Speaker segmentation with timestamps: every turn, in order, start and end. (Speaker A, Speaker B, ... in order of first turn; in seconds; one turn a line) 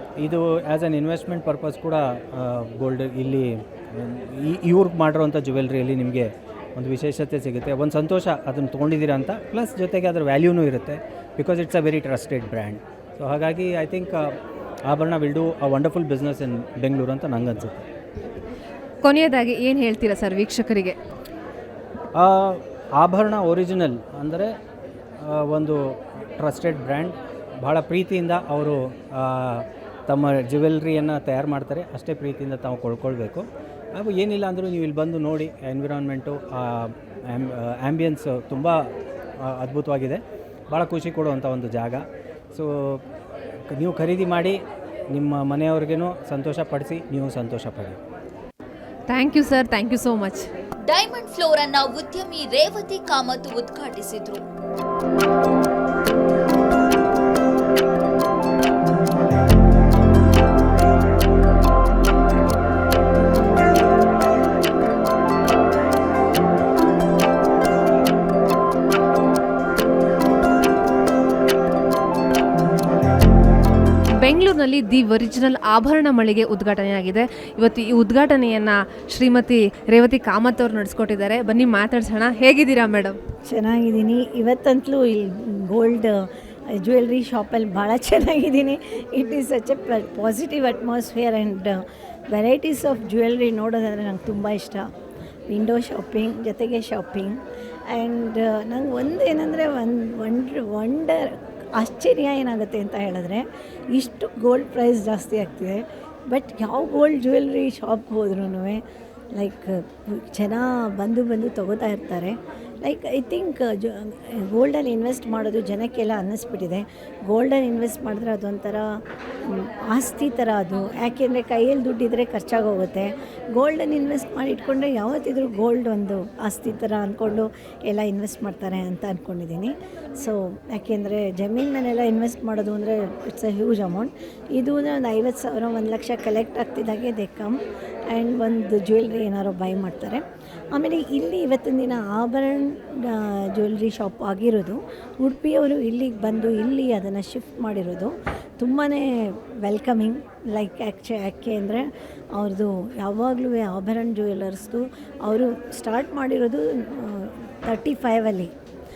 Speaker A: 0.2-14.3
Speaker A: 14.8-17.9
Speaker B: 19.0-21.0
Speaker A: 22.1-24.5
Speaker A: 25.2-43.0
Speaker A: 43.7-44.6
Speaker A: 45.1-48.0
Speaker B: 49.1-50.5
Speaker C: 50.8-54.4
Speaker B: 74.2-83.2
Speaker D: 83.5-94.9
Speaker D: 95.5-158.5